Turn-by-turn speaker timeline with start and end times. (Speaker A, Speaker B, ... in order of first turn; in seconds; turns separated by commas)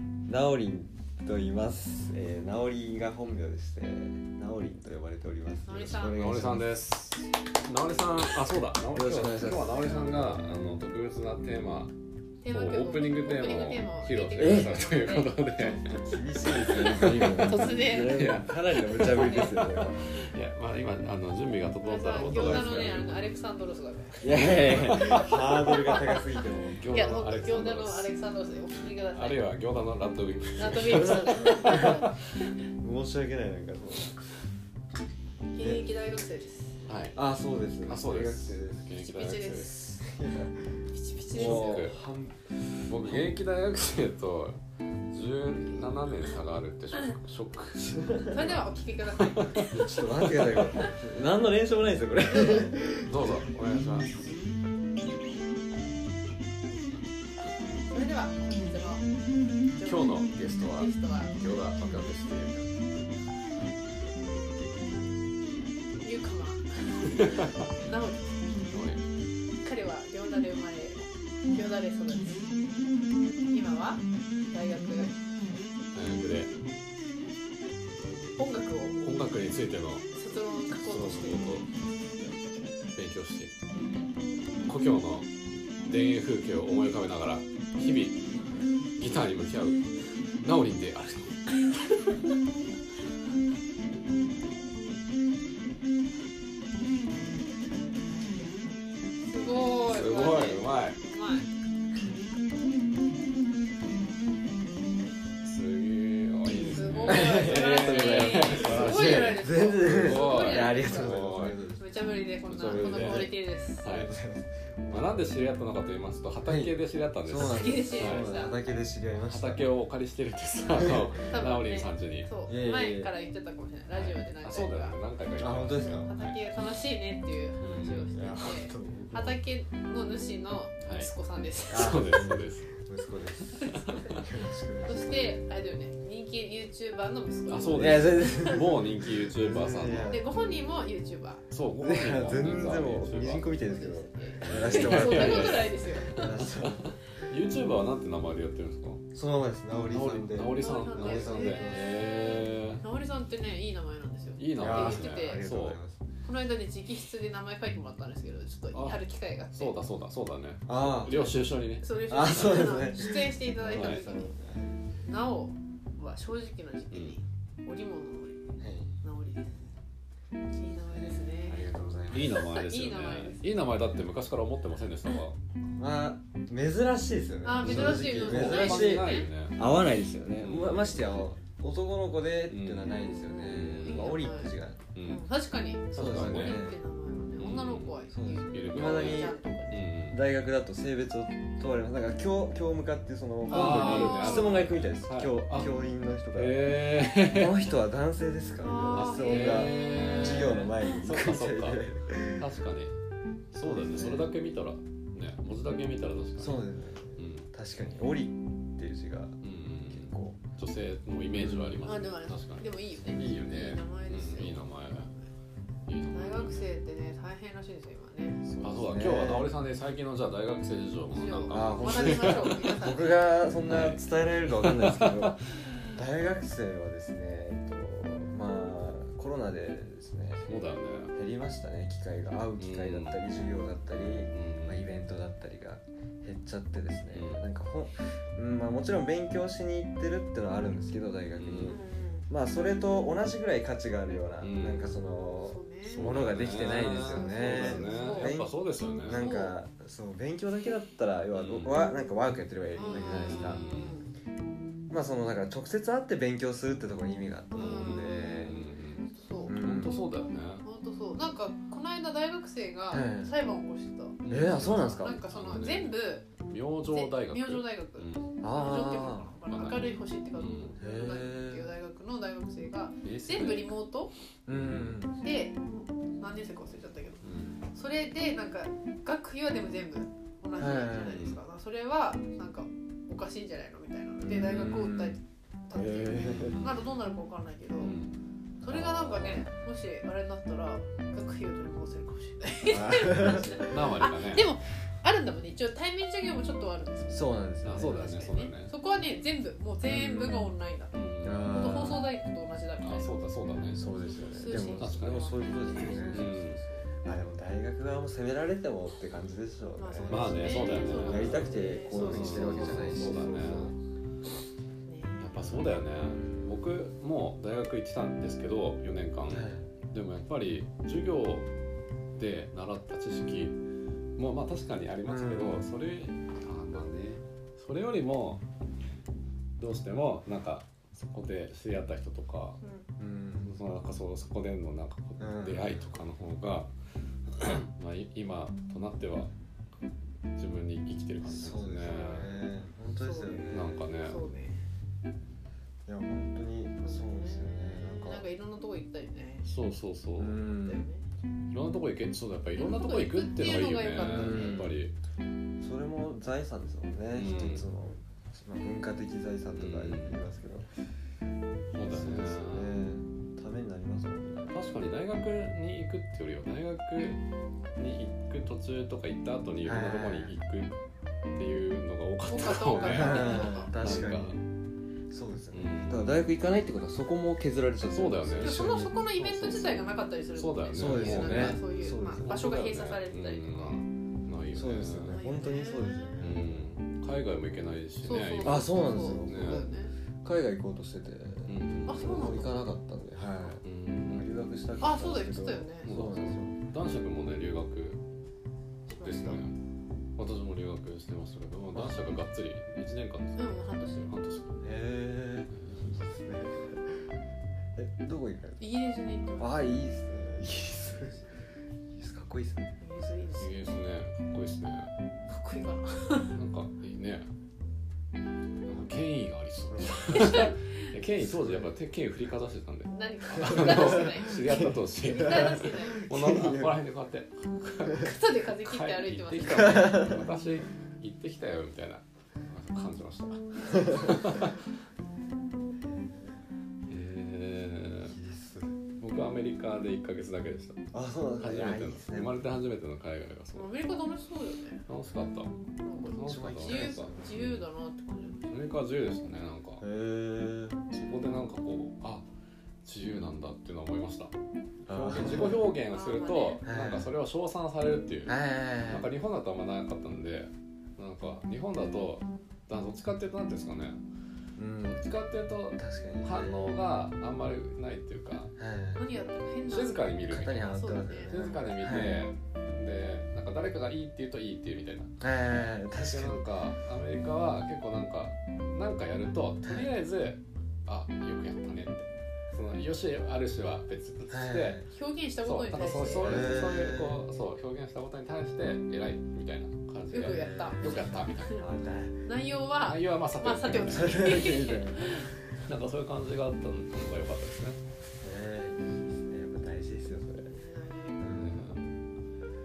Speaker A: 0.3-6.9, Speaker B: 5.7-6.2, Speaker C: 6.1-11.9, Speaker A: 8.9-9.9, Speaker B: 12.4-15.3, Speaker C: 12.5-15.9, Speaker A: 14.4-14.7, Speaker A: 15.6-20.0, Speaker C: 16.5-23.1, Speaker B: 17.4-18.4, Speaker B: 18.9-19.6, Speaker B: 21.8-26.2, Speaker A: 24.2-26.9, Speaker C: 24.3-25.5, Speaker C: 26.8-28.1, Speaker B: 26.9-29.4, Speaker C: 29.1-31.9, Speaker B: 30.6-32.5, Speaker A: 31.0-32.0, Speaker A: 32.8-34.2, Speaker B: 35.5-36.8, Speaker A: 35.6-35.8, Speaker C: 36.9-37.2, Speaker A: 37.1-38.9, Speaker C: 37.8-39.8, Speaker B: 39.0-40.1, Speaker A: 40.0-40.7, Speaker B: 40.9-41.9, Speaker A: 41.3-43.3, Speaker C: 41.3-42.0, Speaker C: 42.9-44.6, Speaker C: 45.1-48.6, Speaker A: 47.9-48.6, Speaker B: 48.2-50.9, Speaker C: 49.2-49.7, Speaker A: 49.7-53.5, Speaker C: 53.1-54.1, Speaker B: 57.9-59.0, Speaker B: 59.7-61.3, Speaker C: 59.8-62.9, Speaker B: 66.0-67.3, Speaker C: 67.1-67.7, Speaker B: 67.8-68.3, Speaker C: 68.7-69.0, Speaker B: 69.6-71.0, Speaker B: 71.5-72.5, Speaker B: 73.5-75.2, Speaker C: 75.9-76.5, Speaker B: 78.4-79.0, Speaker C: 79.0-80.1, Speaker B: 80.1-81.7, Speaker C: 80.8-81.7, Speaker C: 83.0-83.5, Speaker C: 84.7-85.3, Speaker C: 85.9-88.2, Speaker C: 89.0-89.8, Speaker C: 90.4-91.9, Speaker B: 99.3-101.5, Speaker C: 99.7-101.0, Speaker C: 105.4-111.6, Speaker B: 106.6-111.2, Speaker A: 107.0-111.9, Speaker B: 111.8-113.9, Speaker C: 112.5-114.1, Speaker A: 112.6-115.2, Speaker C: 114.9-118.3, Speaker A: 116.5-116.7, Speaker A: 117.2-119.7, Speaker B: 117.3-118.6, Speaker C: 119.3-122.3, Speaker A: 120.8-121.1, Speaker B: 121.3-125.0, Speaker A: 122.5-123.1, Speaker C: 123.9-126.4, Speaker A: 125.4-126.2, Speaker B: 125.8-132.1, Speaker C: 127.6-128.1, Speaker A: 128.1-129.4, Speaker C: 130.8-131.1, Speaker C: 131.7-132.7, Speaker A: 131.7-135.4, Speaker B: 133.6-134.3, Speaker B: 134.8-138.7, Speaker C: 137.5-140.2, Speaker A: 137.8-140.4, Speaker B: 139.9-141.4, Speaker C: 141.5-143.5, Speaker A: 141.8-147.0, Speaker B: 143.5-146.4, Speaker C: 144.4-145.7, Speaker C: 146.4-149.0, Speaker A: 149.1-151.9, Speaker C: 149.9-152.8, Speaker B: 150.6-155.4, Speaker C: 154.4-155.8, Speaker A: 154.6-156.0, Speaker B: 156.2-159.8, Speaker C: 158.7-162.8, Speaker A: 160.7-161.3, Speaker B: 161.1-164.3, Speaker A: 162.1-164.8, Speaker C: 163.7-164.0, Speaker B: 165.0-169.7, Speaker C: 166.9-167.2, Speaker A: 168.6-168.9, Speaker B: 170.5-171.6, Speaker A: 170.9-172.5, Speaker C: 172.1-175.4, Speaker B: 172.4-173.4, Speaker A: 175.8-184.9, Speaker B: 177.4-179.3, Speaker C: 177.6-179.6, Speaker C: 180.4-181.3, Speaker C: 182.5-184.2, Speaker B: 183.0-184.5, Speaker C: 184.9-185.3, Speaker B: 185.0-189.8, Speaker C: 185.9-186.7, Speaker A: 185.9-186.8, Speaker C: 187.4-190.3, Speaker A: 188.1-189.4, Speaker A: 190.1-202.5, Speaker B: 193.5-194.6, Speaker C: 193.5-197.7, Speaker B: 198.6-200.2, Speaker C: 198.9-202.9, Speaker C: 203.5-206.7, Speaker A: 203.6-204.3, Speaker A: 206.4-209.4, Speaker C: 207.2-207.5, Speaker C: 209.4-215.1, Speaker A: 209.9-210.4, Speaker A: 211.3-211.8, Speaker B: 211.8-215.3, Speaker C: 215.9-216.6, Speaker B: 216.1-218.4, Speaker A: 218.4-219.5, Speaker C: 218.6-222.7, Speaker B: 221.1-223.3, Speaker A: 221.5-230.5, Speaker C: 223.7-225.4, Speaker C: 230.4-231.1, Speaker A: 231.1-253.6, Speaker C: 232.6-233.2, Speaker C: 233.9-234.9, Speaker C: 237.1-237.4, Speaker C: 241.3-241.8, Speaker B: 241.7-242.3, Speaker C: 244.4-244.9, Speaker B: 245.4-246.2, Speaker C: 245.8-249.2, Speaker B: 246.9-248.3, Speaker B: 249.1-249.6, Speaker C: 251.3-251.7, Speaker B: 252.7-254.1, Speaker C: 253.2-253.9, Speaker A: 254.9-258.6, Speaker B: 257.6-259.6, Speaker C: 257.6-260.6, Speaker A: 259.5-260.0, Speaker B: 260.6-266.3, Speaker A: 262.9-263.3, Speaker C: 264.2-265.9, Speaker A: 264.3-265.2, Speaker C: 266.4-268.3, Speaker B: 266.9-274.1, Speaker A: 268.4-269.3, Speaker C: 269.5-270.7, Speaker A: 270.8-271.6, Speaker C: 273.0-273.8, Speaker A: 274.5-275.2, Speaker C: 274.5-275.0, Speaker B: 275.2-277.2, Speaker C: 277.2-277.6, Speaker B: 277.7-288.0, Speaker A: 280.6-281.2, Speaker C: 281.1-281.4, Speaker A: 284.2-285.2, Speaker A: 285.7-286.7, Speaker C: 286.2-286.7, Speaker C: 287.8-288.1, Speaker A: 288.6-289.5, Speaker B: 288.6-303.1, Speaker A: 292.7-293.9, Speaker C: 293.6-294.5, Speaker A: 297.1-298.0, Speaker C: 297.6-298.7, Speaker A: 299.8-300.5, Speaker C: 300.9-301.9, Speaker A: 301.2-302.0, Speaker C: 302.8-303.9, Speaker A: 303.7-306.4, Speaker B: 304.0-306.9, Speaker C: 304.8-306.6, Speaker A: 307.0-313.8, Speaker B: 309.8-313.7, Speaker C: 310.1-313.7, Speaker B: 314.9-315.6, Speaker C: 315.2-321.5, Speaker A: 316.1-316.5, Speaker A: 319.3-319.7, Speaker C: 322.1-323.6, Speaker C: 324.2-328.4, Speaker A: 325.1-325.7, Speaker C: 329.6-332.6, Speaker B: 332.6-332.9, Speaker A: 333.0-333.6, Speaker C: 333.4-336.7, Speaker A: 335.2-335.8, Speaker C: 337.3-339.3, Speaker C: 340.4-342.4, Speaker A: 341.2-343.9, Speaker B: 341.9-342.2, Speaker B: 343.0-343.5, Speaker C: 343.5-344.2, Speaker B: 344.0-344.6, Speaker A: 345.9-348.2, Speaker B: 346.8-349.5, Speaker C: 349.4-350.4, Speaker A: 350.2-350.9, Speaker B: 350.6-351.1, Speaker C: 351.5-354.9, Speaker B: 352.6-354.6, Speaker A: 354.1-354.8, Speaker A: 355.6-360.7, Speaker C: 357.1-357.7, Speaker C: 359.5-360.2, Speaker C: 361.7-362.8, Speaker A: 361.8-364.6, Speaker C: 364.5-367.2, Speaker C: 367.8-370.8, Speaker A: 369.6-370.3, Speaker C: 371.4-374.4, Speaker B: 372.3-373.7, Speaker A: 372.8-374.4, Speaker A: 375.1-378.9, Speaker C: 375.5-376.1, Speaker C: 377.9-378.6, Speaker B: 378.4-383.8, Speaker C: 379.2-381.6, Speaker A: 380.8-383.0, Speaker C: 382.2-385.2, Speaker A: 384.5-386.7, Speaker B: 385.1-386.2, Speaker C: 386.2-389.7, Speaker B: 388.0-389.9, Speaker A: 388.4-389.7, Speaker A: 390.2-396.6, Speaker C: 391.5-392.4, Speaker B: 391.9-392.6, Speaker C: 393.6-394.3, Speaker B: 394.8-395.9, Speaker C: 395.8-398.0, Speaker C: 398.9-399.6, Speaker B: 399.0-399.4, Speaker C: 400.2-404.6, Speaker A: 401.8-402.1, Speaker B: 403.4-404.1, Speaker A: 404.6-407.1, Speaker C: 405.5-405.9, Speaker A: 407.8-408.6, Speaker B: 408.6-409.7, Speaker A: 409.4-411.2, Speaker B: 410.9-411.5, Speaker A: 411.9-412.8, Speaker B: 412.8-413.8, Speaker C: 413.4-414.9, Speaker B: 415.3-416.4, Speaker C: 416.3-417.3, Speaker C: 418.7-434.6, Speaker A: 419.7-420.5, Speaker B: 420.2-420.5, Speaker A: 421.2-421.7, Speaker B: 422.9-426.0, Speaker A: 423.4-426.8, Speaker B: 427.9-430.1, Speaker A: 429.6-430.3, Speaker A: 433.7-434.1, Speaker A: 435.8-436.4, Speaker C: 436.9-438.2, Speaker A: 438.1-438.8, Speaker C: 439.0-440.9, Speaker A: 440.9-442.4, Speaker C: 441.4-443.7, Speaker B: 443.5-444.8, Speaker C: 444.9-445.5, Speaker B: 445.8-448.5, Speaker C: 446.1-447.6, Speaker A: 446.3-447.4, Speaker C: 448.5-449.8, Speaker A: 449.8-450.8, Speaker C: 450.9-452.2, Speaker C: 452.8-454.3, Speaker A: 454.9-455.6, Speaker C: 454.9-464.0, Speaker B: 455.9-456.6, Speaker A: 456.6-457.1, Speaker A: 458.3-459.1, Speaker A: 464.6-465.0, Speaker C: 464.8-468.5, Speaker A: 465.8-466.8, Speaker A: 468.6-469.0, Speaker B: 469.0-470.1, Speaker C: 469.7-470.7, Speaker A: 470.3-472.2, Speaker B: 470.7-471.6, Speaker C: 471.3-475.1, Speaker A: 475.2-476.4, Speaker C: 475.9-484.8, Speaker A: 479.6-479.9, Speaker A: 484.3-484.9, Speaker B: 484.9-486.6, Speaker C: 485.4-491.6, Speaker A: 486.2-487.2, Speaker B: 490.1-491.6, Speaker A: 490.2-492.2, Speaker B: 492.2-495.3, Speaker C: 492.8-494.5, Speaker A: 493.8-495.6, Speaker C: 495.6-497.8, Speaker A: 498.2-500.6, Speaker B: 500.5-501.2, Speaker A: 501.2-501.7, Speaker C: 501.4-501.9